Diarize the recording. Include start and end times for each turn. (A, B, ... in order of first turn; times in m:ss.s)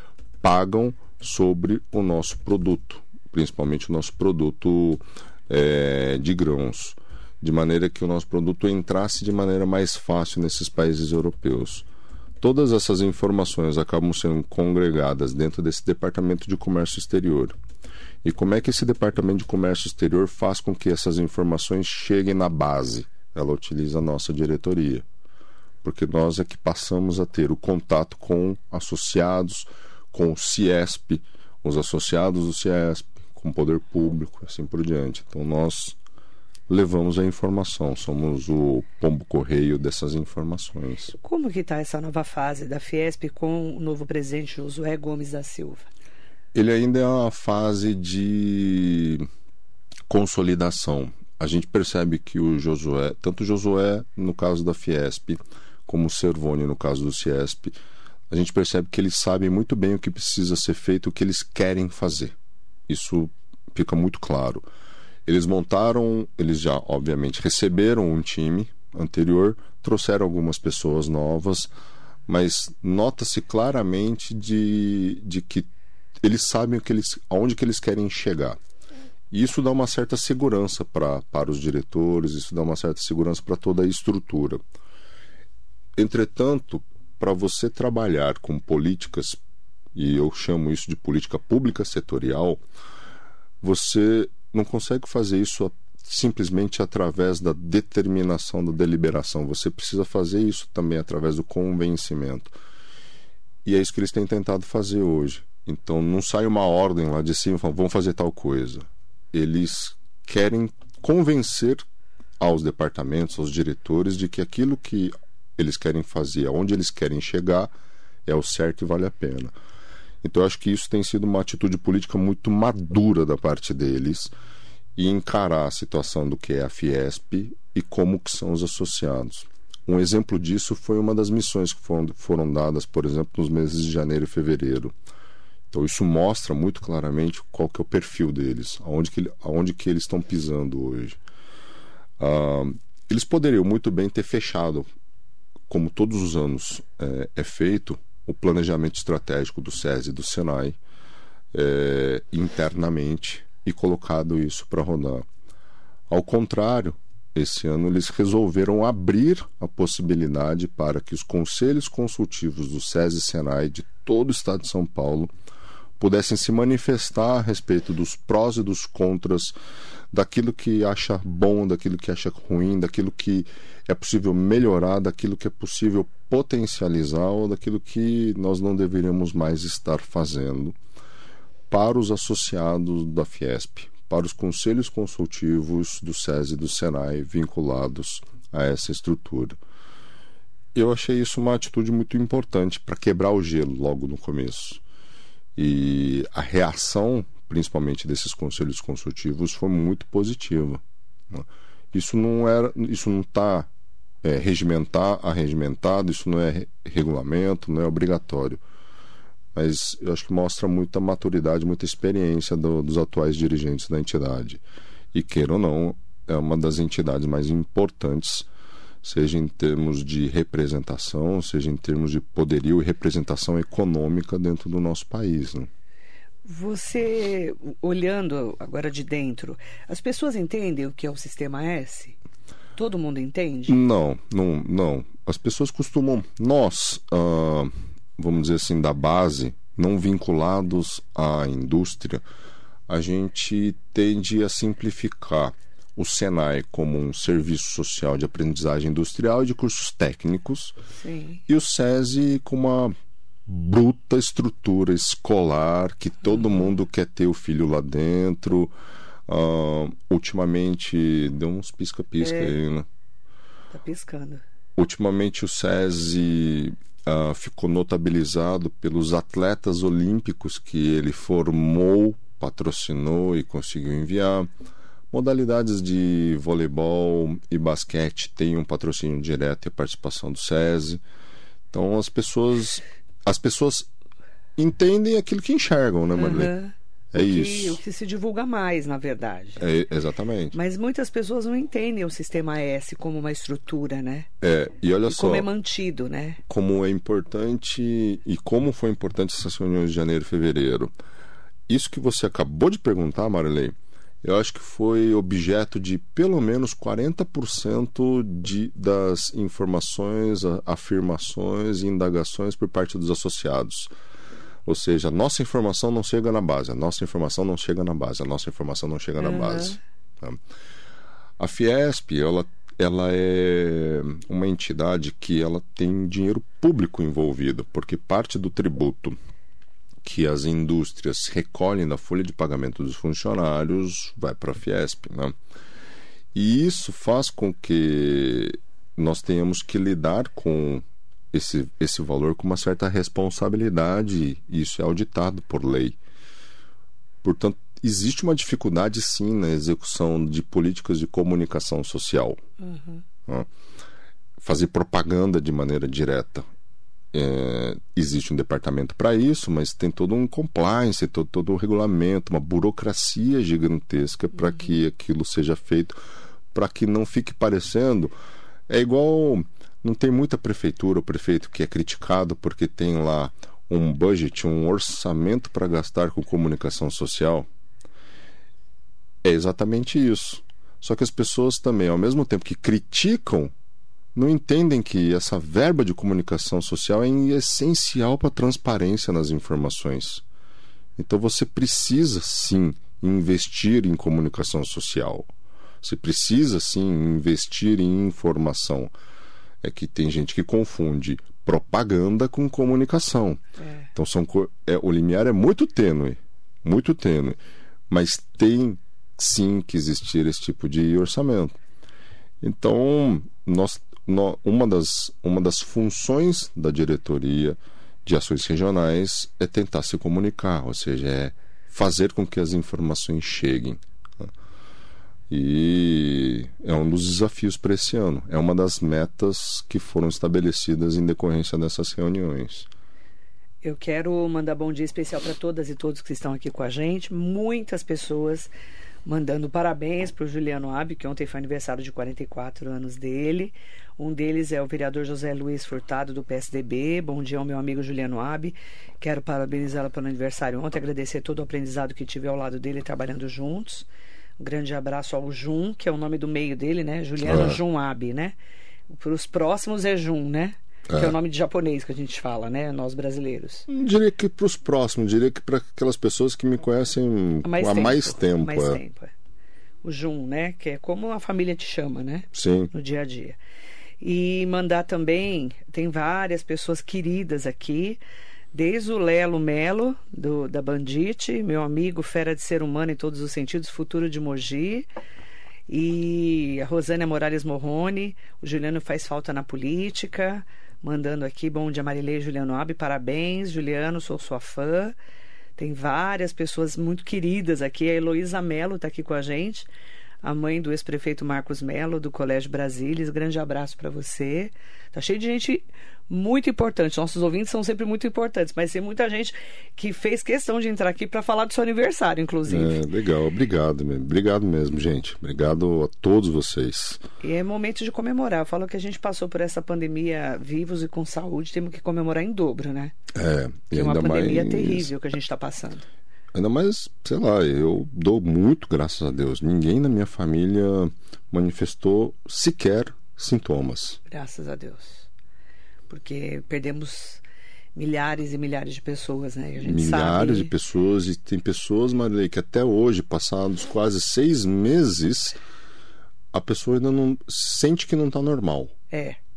0:00.4-0:11.9 A
0:12.4-0:17.6 A
0:18.2-0:25.0 A
0:25.8-0:36.0 A
0:36.7-0:41.1 A
0:41.2-0:45.9 B
0:46.5-0:49.3 A
0:50.1-0:57.8 A
0:58.3-1:02.3 A
1:02.9-1:04.6 A
1:05.2-1:11.7 A
1:12.3-1:15.7 A
1:16.2-1:18.6 A
1:19.3-1:24.6 A
1:26.0-1:29.4 A
1:29.9-1:32.6 A
1:33.6-1:42.5 A
1:43.6-1:51.8 A
1:52.4-1:57.7 A
1:58.2-1:59.5 A
2:00.2-2:04.3 A
2:05.0-2:14.9 A
2:15.7-2:21.2 A
2:22.2-2:24.9 A
2:25.7-2:30.8 A
2:31.5-2:35.2 A
2:36.1-2:45.3 A
2:46.0-2:49.5 A
2:50.1-3:00.8 A
3:01.7-3:09.6 A
3:10.7-3:14.8 A
3:15.6-3:23.7 A
3:24.2-3:28.6 A
3:29.5-3:34.6 A
3:35.1-3:38.5 A
3:39.0-3:45.7 A
3:46.4-3:52.2 B
3:52.8-3:53.8 B
3:53.7-4:02.2 A
4:02.9-4:10.7 A
4:11.0-4:11.4 B
4:11.5-4:12.9 A
4:13.4-4:18.7 A
4:19.3-4:22.8 A
4:22.2-4:22.5 B
4:23.7-4:24.4 B
4:24.8-4:34.5 A
4:35.1-4:41.0 A
4:41.7-4:43.9 A
4:44.6-4:46.5 A
4:46.2-4:49.6 B
4:47.1-4:47.8 A
4:49.6-4:50.6 A
4:50.5-4:54.3 B
4:54.4-4:55.5 A
4:55.1-4:56.4 B
4:56.5-5:00.9 A
5:01.7-5:13.9 A
5:14.6-5:20.4 A
5:19.2-5:19.8 B
5:21.4-5:29.2 A
5:30.0-5:35.3 A
5:36.3-5:46.0 A
5:47.2-5:52.4 A
5:52.6-5:53.0 B
5:54.4-5:56.4 A
5:57.1-6:06.0 A
6:06.5-6:08.1 A
6:08.7-6:17.5 A
6:19.2-6:23.5 A
6:24.1-6:30.2 A
6:31.0-6:35.3 A
6:35.8-6:38.9 A
6:39.6-6:43.4 A
6:43.6-6:43.9 B
6:43.9-6:51.6 A
6:52.4-7:04.3 A
7:05.3-7:12.7 A
7:13.6-7:18.5 B
7:19.0-7:33.9 B
7:34.4-7:38.3 B
7:37.2-7:37.6 A
7:38.9-7:43.7 B
7:40.9-7:41.2 A
7:43.7-7:48.8 A
7:47.4-7:49.1 B
7:49.8-7:53.4 B
7:52.3-7:52.7 A
7:54.0-7:58.0 B
7:58.5-8:04.9 B
8:05.7-8:14.9 B
8:15.6-8:19.7 B
8:20.2-8:32.8 B
8:32.5-8:37.0 A
8:37.2-8:42.9 B
8:43.1-8:44.9 A
8:43.7-8:45.9 B
8:46.3-8:54.0 A
8:54.1-8:55.1 B
8:55.9-8:57.2 B
8:57.7-9:00.5 B
8:59.6-9:05.4 A
9:06.3-9:08.7 A
9:08.9-9:09.2 B